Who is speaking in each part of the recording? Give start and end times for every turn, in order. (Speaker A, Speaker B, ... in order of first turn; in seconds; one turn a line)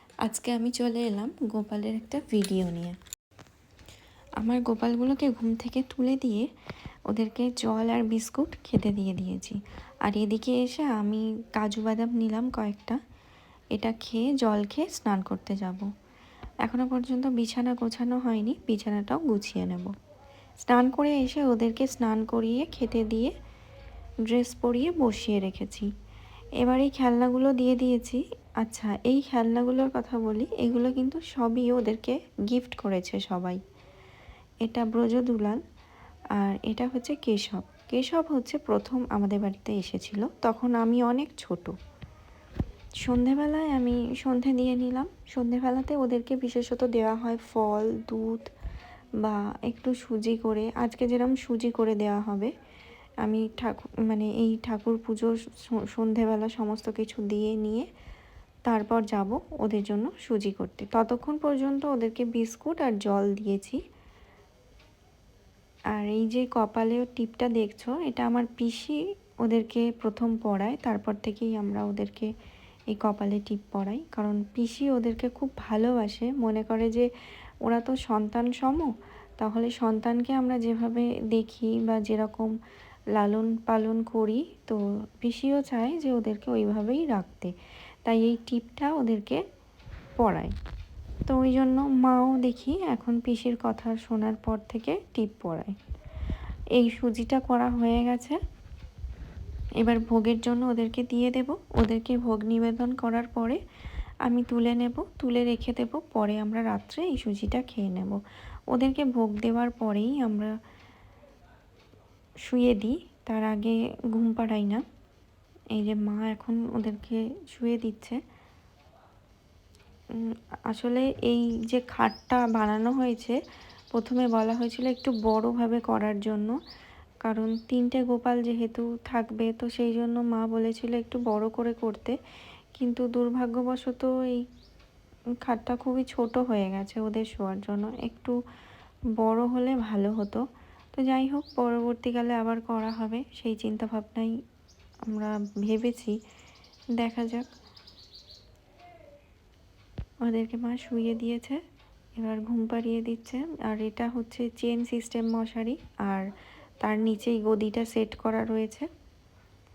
Speaker A: 0.2-3.0
Speaker A: 4.4-6.5
Speaker A: 7.1-13.0
Speaker A: 13.7-15.9
Speaker A: 16.6-19.9
Speaker A: 20.6-23.3
Speaker A: 24.2-25.9
Speaker A: 26.6-33.6
Speaker A: 34.6-35.6
Speaker A: 36.4-41.7
Speaker A: 43.0-48.5
Speaker A: 49.2-52.5
Speaker A: 53.2-57.9
Speaker A: 58.7-63.8
Speaker A: 65.9-72.3
Speaker A: 72.9-77.1
Speaker A: 77.6-82.5
Speaker A: 83.1-87.5
Speaker A: 88.0-89.4
Speaker A: 90.2-90.5
Speaker A: 91.3-95.7
Speaker A: 96.8-98.4
Speaker A: 99.8-103.6
Speaker A: 104.2-110.5
Speaker A: 112.4-114.8
Speaker A: 115.7-118.2
Speaker A: 120.1-123.4
Speaker A: 123.9-126.5
Speaker A: 127.2-132.2
Speaker A: 132.7-134.4
Speaker A: 135.4-138.4
Speaker A: 139.2-144.3
Speaker A: 145.1-146.2
Speaker A: 147.0-147.5
Speaker A: 150.2-151.6
Speaker A: 152.2-156.2
Speaker A: 156.8-158.9